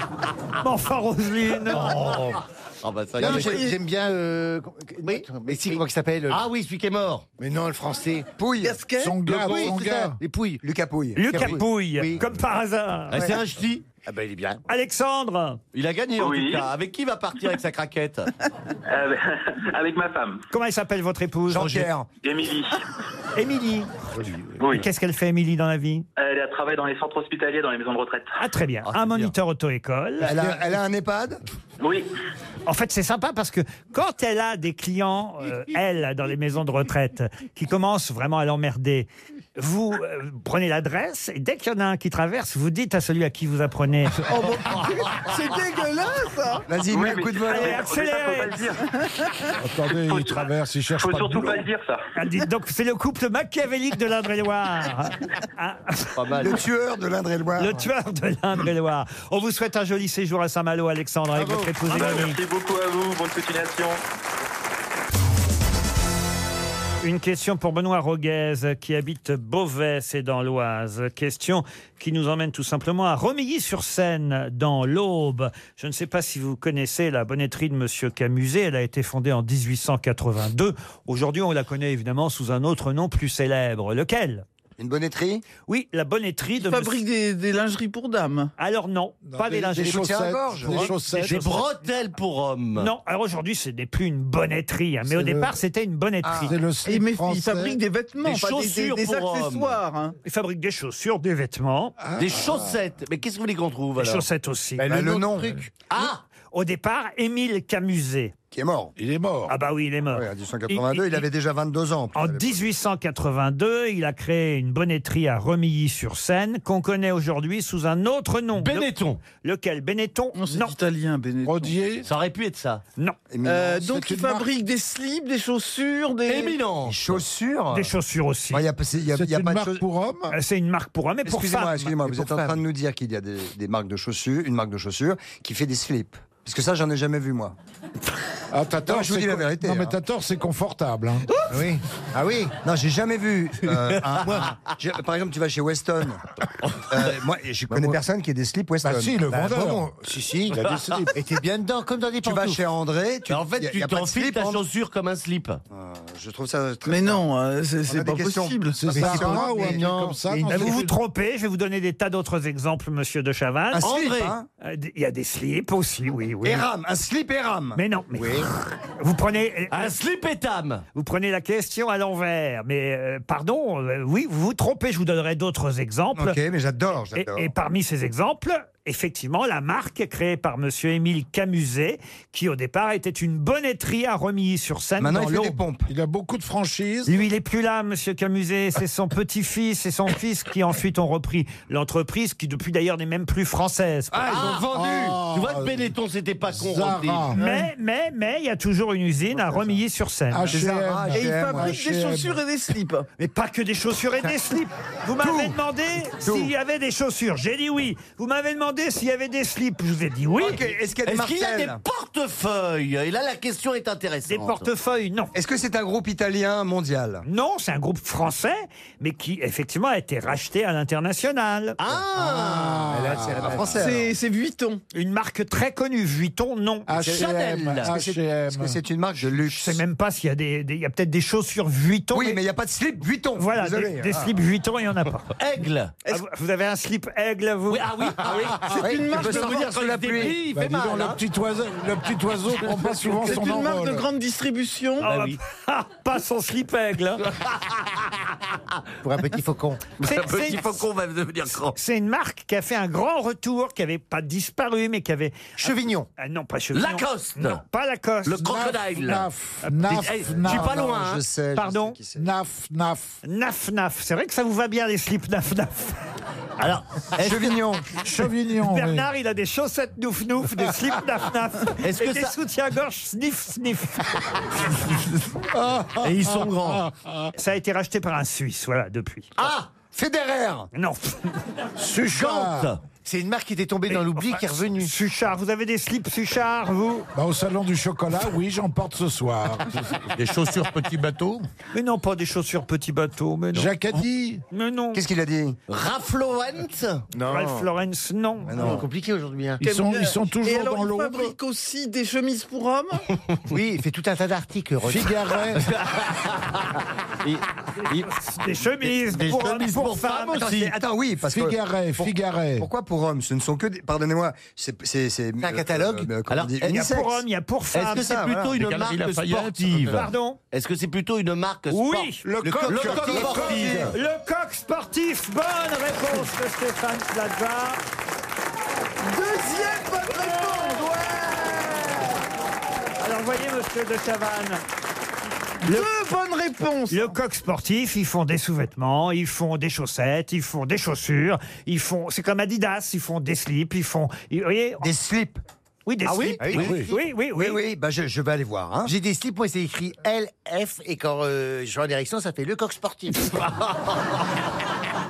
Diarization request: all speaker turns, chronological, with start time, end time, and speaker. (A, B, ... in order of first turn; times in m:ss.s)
0:00.6-0:01.9 A
0:01.7-0:03.7 B
0:03.2-0:06.4 C
0:03.2-0:03.8 D
0:06.3-0:07.3 B
0:07.4-0:08.3 C
0:08.4-0:08.9 E
0:08.6-0:09.2 D
0:09.0-0:10.2 F
0:09.2-0:10.6 C
0:10.6-0:11.6 E
0:11.2-0:13.2 A
0:11.3-0:12.2 C
0:13.1-0:13.9 B
0:14.0-0:14.6 C
0:14.7-0:15.6 A
0:15.7-0:18.3 B
0:16.2-0:16.7 G
0:18.9-0:20.4 G
0:20.5-0:21.9 A
0:21.5-0:22.1 E
0:22.2-0:22.8 G
0:23.4-0:23.9 A
0:24.6-0:24.9 G
0:24.6-0:26.1 A
0:26.2-0:28.4 G
0:28.4-0:30.3 A
0:30.2-0:31.4 E
0:31.8-0:32.1 G
0:32.7-0:44.3 A
0:44.3-0:46.7 D
0:46.7-0:47.9 E
0:46.8-0:48.8 G
0:47.4-0:48.7 A
0:48.9-0:49.5 D
0:49.6-0:51.7 F
0:49.8-0:52.1 G
0:52.2-0:56.4 A
0:56.2-0:56.6 B
0:56.4-0:57.9 E
0:57.6-1:02.4 A
1:01.4-1:02.2 B
1:01.9-1:04.0 G
1:07.0-1:24.4 A
1:24.8-1:25.4 E
1:25.7-1:27.0 A
1:26.6-1:28.5 D
1:28.6-1:30.1 A
1:29.3-1:31.5 F
1:29.7-1:31.0 E
1:30.7-1:32.9 B
1:31.1-1:31.6 A
1:32.8-1:36.6 A
1:35.0-1:35.5 F
1:36.2-1:36.6 E
1:36.4-1:37.8 F
1:36.8-1:40.2 D
1:38.2-1:39.8 B
1:40.2-1:42.0 A
1:42.0-1:42.7 F
1:42.2-1:44.3 B
1:44.0-1:44.9 A
1:44.8-1:45.7 C
1:44.8-1:45.6 E
1:45.8-1:46.2 B
1:46.5-1:48.3 A
1:48.5-1:49.0 E
1:49.0-1:49.6 F
1:49.5-1:51.3 A
1:50.1-1:52.6 E
1:52.1-2:00.8 A
1:58.6-1:59.2 B
2:00.3-2:01.8 D
2:01.4-2:02.1 F
2:02.0-2:02.8 B
2:03.3-2:03.8 E
2:03.4-2:06.6 D
2:03.7-2:04.5 F
2:06.3-2:07.2 B
2:06.8-2:07.9 E
2:07.7-2:08.6 A
2:08.5-2:09.8 E
2:09.1-2:10.4 F
2:10.3-2:12.0 A
2:11.2-2:17.6 E
2:12.1-2:12.6 C
2:18.5-2:21.3 F
2:18.8-2:20.0 E
2:21.5-2:22.5 C
2:22.6-2:26.3 E
2:23.8-2:24.2 B
2:24.2-2:24.5 C
2:26.9-2:29.3 E
2:27.7-2:28.0 C
2:28.8-2:31.1 F
2:29.3-2:32.6 C
2:30.6-2:31.0 B
2:32.2-2:34.6 E
2:33.3-2:35.6 B
2:35.7-2:37.2 E
2:36.8-2:38.9 D
2:37.9-2:40.0 E
2:38.8-2:41.0 F
2:38.9-2:40.6 C
2:40.5-2:44.1 A
2:43.7-2:44.5 E
2:43.8-2:44.4 B
2:44.6-2:46.7 A
2:46.4-2:47.8 E
2:47.8-2:50.0 A
2:48.2-2:48.5 C
2:49.7-2:50.8 B
2:50.9-2:56.4 A
2:56.1-2:57.5 E
2:57.1-3:05.6 A
3:05.0-3:05.9 E
3:05.9-3:07.2 F
3:07.1-3:14.2 A
3:14.1-3:15.2 E
3:14.3-3:17.4 B
3:14.5-3:15.9 F
3:16.5-3:17.4 F
3:17.4-3:20.6 A
3:17.4-3:17.7 D
3:20.3-3:22.4 F
3:20.5-3:21.8 E
3:21.1-3:23.1 D
3:23.2-3:30.6 A
3:25.2-3:25.6 E
3:26.2-3:26.5 E
3:30.4-3:31.8 E
3:31.1-3:34.7 B
3:34.3-3:35.3 A
3:35.3-3:37.2 E
3:37.2-3:41.8 A
3:41.8-3:43.0 B
3:42.1-3:43.6 F
3:42.9-3:43.8 C
3:43.1-3:44.1 E
3:43.8-3:44.8 D
3:44.9-3:46.9 A
3:46.9-3:48.8 F
3:47.0-3:47.9 B
3:47.1-3:49.8 E
3:49.2-3:52.4 A
3:52.1-3:54.3 E
3:53.4-3:55.4 A
3:55.4-3:55.9 B
3:56.1-3:58.2 A
3:57.7-4:01.2 B
3:58.7-4:00.4 E
3:58.8-3:59.6 D
4:00.5-4:04.1 F
4:02.6-4:03.4 B
4:03.2-4:05.1 D
4:05.0-4:05.4 B
4:05.0-4:07.3 A
4:07.3-4:08.2 B
4:09.0-4:09.9 C
4:10.0-4:11.8 B
4:10.0-4:10.8 A
4:11.7-4:18.5 A
4:15.6-4:16.1 C
4:16.7-4:17.6 B
4:18.2-4:19.3 B
4:18.5-4:20.8 F
4:19.8-4:21.2 B
4:20.4-4:22.3 E
4:21.6-4:22.0 A
4:22.2-4:23.2 F
4:23.2-4:26.0 A
4:26.6-4:27.6 B
4:27.2-4:27.9 E
4:28.0-4:34.2 A
4:28.1-4:29.1 F
4:31.8-4:32.4 B
4:35.6-4:37.2 F
4:36.0-4:36.8 B
4:37.4-4:39.3 A
4:39.4-4:39.7 B
4:39.4-4:40.7 E
4:40.8-4:41.3 A
4:41.8-4:42.7 F
4:42.1-4:42.8 B
4:43.0-4:44.9 C
4:43.9-4:47.1 A
4:47.2-4:49.8 F
4:50.1-4:51.5 H
4:51.7-4:53.7 A
4:53.5-4:54.4 F
4:54.5-4:55.0 A
4:54.9-4:55.6 E
4:55.7-4:57.1 B
4:57.2-4:57.7 C
4:57.2-4:58.5 A
4:58.5-4:58.9 E
4:58.5-4:59.6 C
4:58.6-4:58.9 D
4:59.6-5:01.4 F
4:59.6-5:03.1 D
5:03.5-5:05.6 C
5:04.8-5:05.7 F
5:05.5-5:06.8 B
5:08.1-5:10.5 A
5:08.9-5:10.8 B
5:09.2-5:17.2 E
5:11.3-5:12.7 F
5:15.4-5:16.1 C
5:16.3-5:16.9 B
5:16.7-5:18.2 A
5:17.7-5:23.9 B
5:17.9-5:18.5 E
5:18.6-5:20.1 H
5:19.9-5:20.4 A
5:21.7-5:22.2 A
5:22.2-5:23.9 F
5:22.6-5:23.9 E
5:23.9-5:27.8 A
5:29.0-5:32.2 D
5:33.0-5:34.6 A
5:35.6-5:35.9 A
5:35.6-5:37.1 D
5:36.9-5:44.8 A
5:44.8-5:45.4 E
5:45.9-5:47.6 A
5:46.1-5:46.8 B
5:46.4-5:46.8 C
5:46.5-5:46.9 F
5:46.9-5:48.9 E
5:48.8-5:53.4 C
5:53.4-5:54.1 B